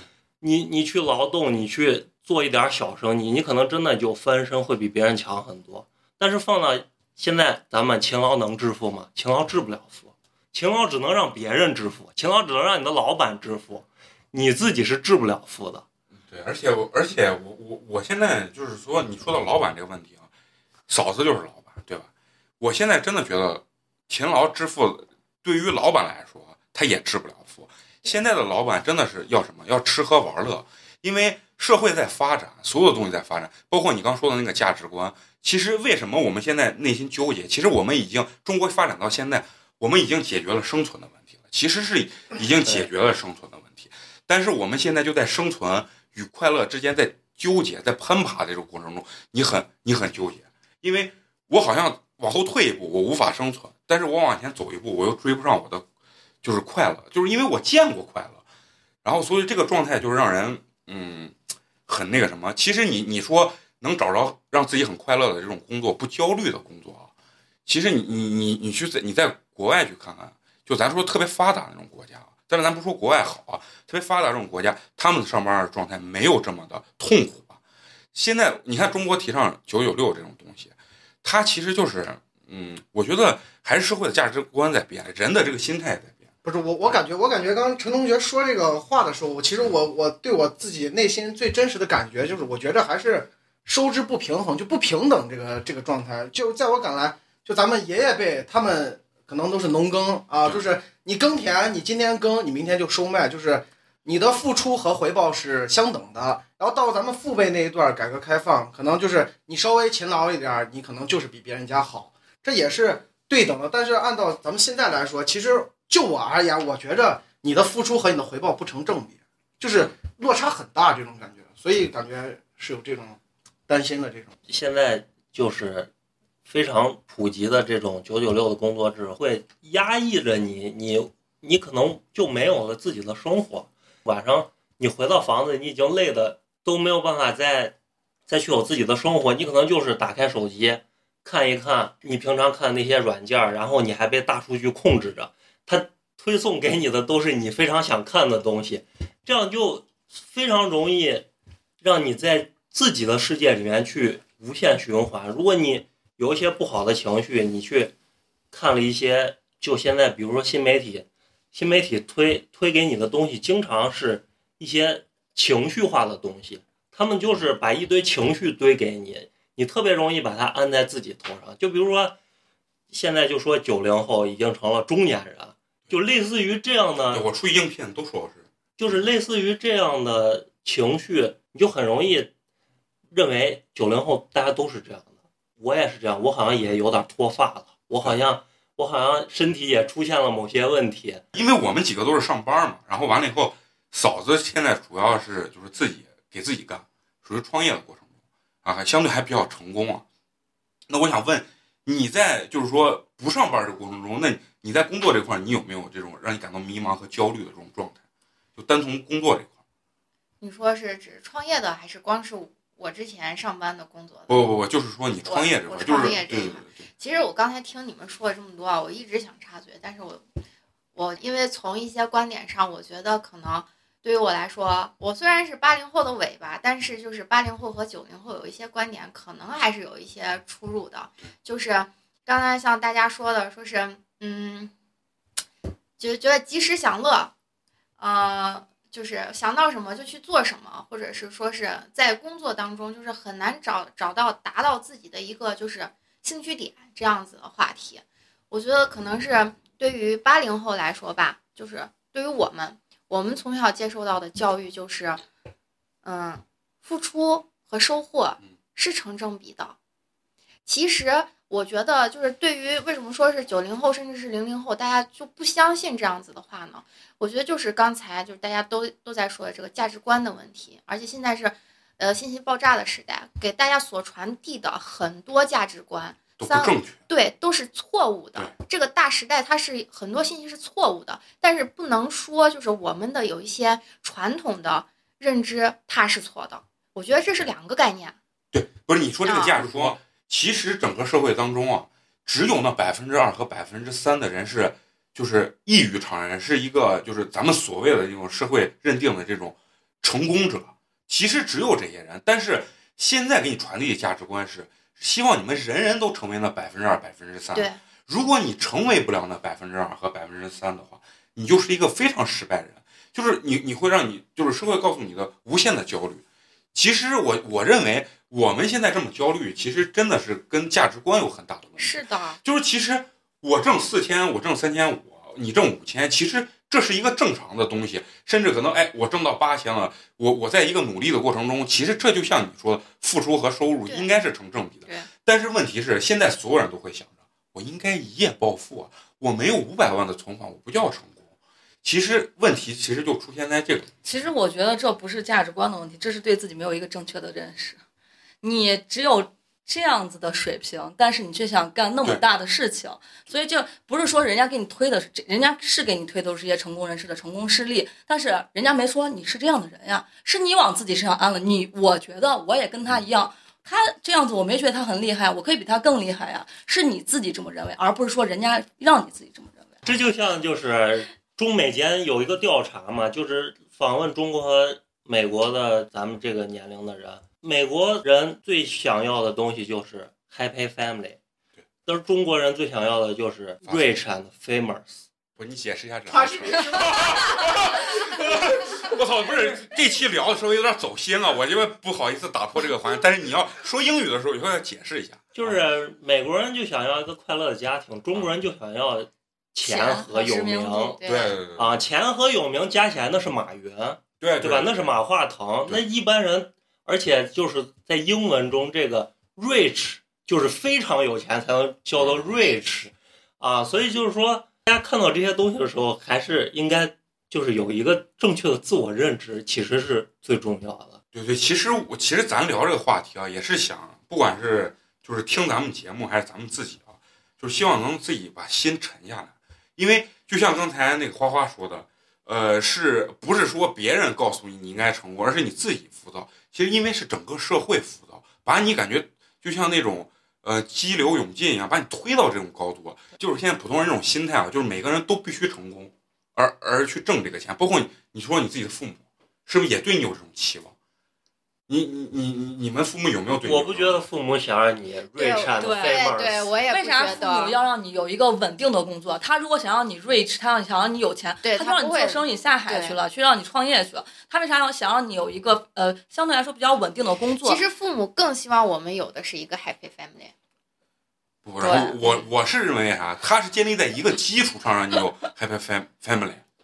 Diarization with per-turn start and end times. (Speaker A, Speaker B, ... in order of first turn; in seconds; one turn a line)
Speaker A: 0.4-15.8
Speaker B: 16.3-20.3
Speaker B: 20.9-22.1
Speaker B: 22.6-55.9
Speaker B: 56.4-58.4
Speaker B: 59.0-61.4
Speaker B: 61.9-67.1
Speaker B: 67.7-77.6
Speaker B: 78.1-86.2
Speaker C: 86.5-124.3
Speaker A: 124.5-125.9
Speaker A: 126.5-137.8
Speaker A: 138.3-151.3
Speaker A: 151.8-157.9
Speaker A: 158.5-172.2
Speaker A: 172.9-177.2
Speaker B: 177.1-179.0
Speaker A: 178.8-182.3
Speaker A: 183.1-191.2
Speaker B: 191.3-198.1
Speaker B: 198.6-200.0
Speaker B: 200.9-208.0
Speaker B: 208.6-209.5
Speaker D: 210.4-214.5
Speaker B: 214.3-216.9
Speaker D: 215.2-220.2
Speaker D: 220.9-234.7
Speaker D: 236.0-237.3
Speaker D: 238.0-255.2
Speaker D: 256.0-259.8
Speaker D: 260.7-288.2
Speaker B: 276.4-277.0
Speaker B: 288.5-316.2
Speaker D: 289.3-289.6
Speaker D: 307.5-307.8
Speaker B: 316.7-341.2
Speaker D: 321.8-322.4
Speaker B: 341.8-343.9
Speaker E: 344.0-347.8
Speaker E: 348.4-369.8
Speaker A: 369.8-381.2
Speaker A: 381.9-385.0
Speaker B: 383.6-383.9
Speaker B: 385.4-395.6
Speaker C: 386.1-387.4
Speaker A: 395.4-401.0
Speaker E: 399.6-401.0
Speaker D: 401.0-401.4
Speaker B: 401.1-401.8
Speaker A: 401.6-421.0
Speaker B: 404.2-404.9
Speaker B: 411.9-412.3
Speaker B: 421.1-450.7
Speaker B: 451.7-454.0
Speaker A: 453.4-456.5
Speaker D: 455.2-457.5
Speaker E: 455.6-456.1
Speaker E: 456.7-467.6
Speaker D: 461.4-463.0
Speaker D: 467.4-470.3
Speaker B: 471.4-476.4
Speaker D: 471.6-472.2